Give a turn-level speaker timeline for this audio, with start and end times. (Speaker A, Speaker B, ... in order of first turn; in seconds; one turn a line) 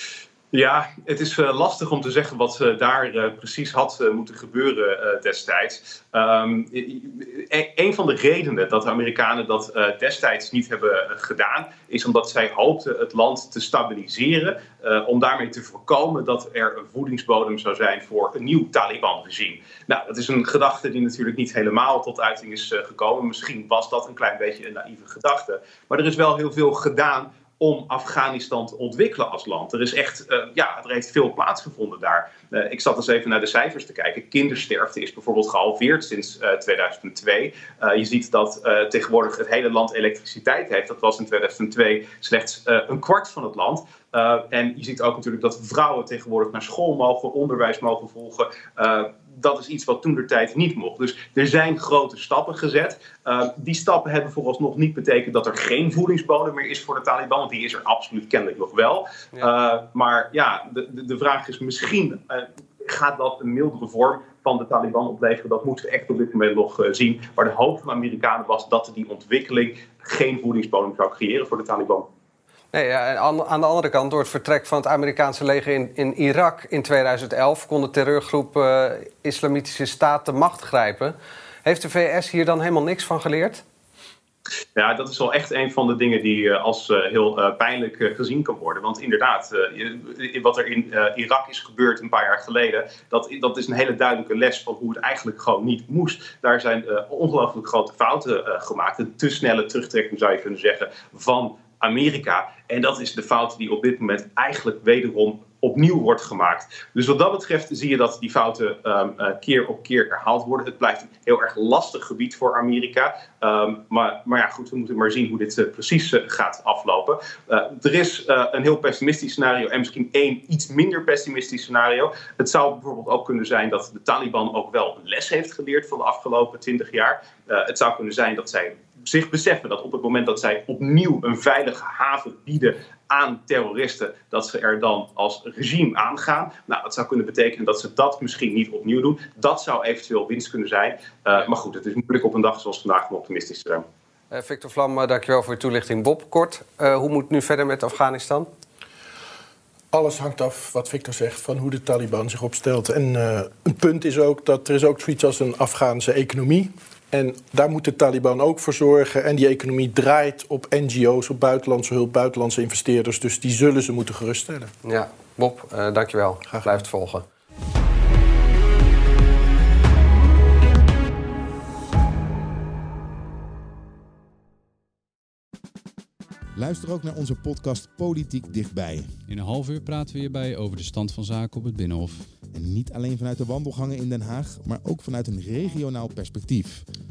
Speaker A: 0.5-72.0
Speaker B: 72.7-83.6
Speaker A: 84.8-143.8
Speaker B: 144.3-148.5
Speaker C: 149.9-164.7
Speaker B: 164.8-167.2
Speaker D: 176.6-179.1
Speaker E: 179.3-182.2
Speaker D: 182.5-186.8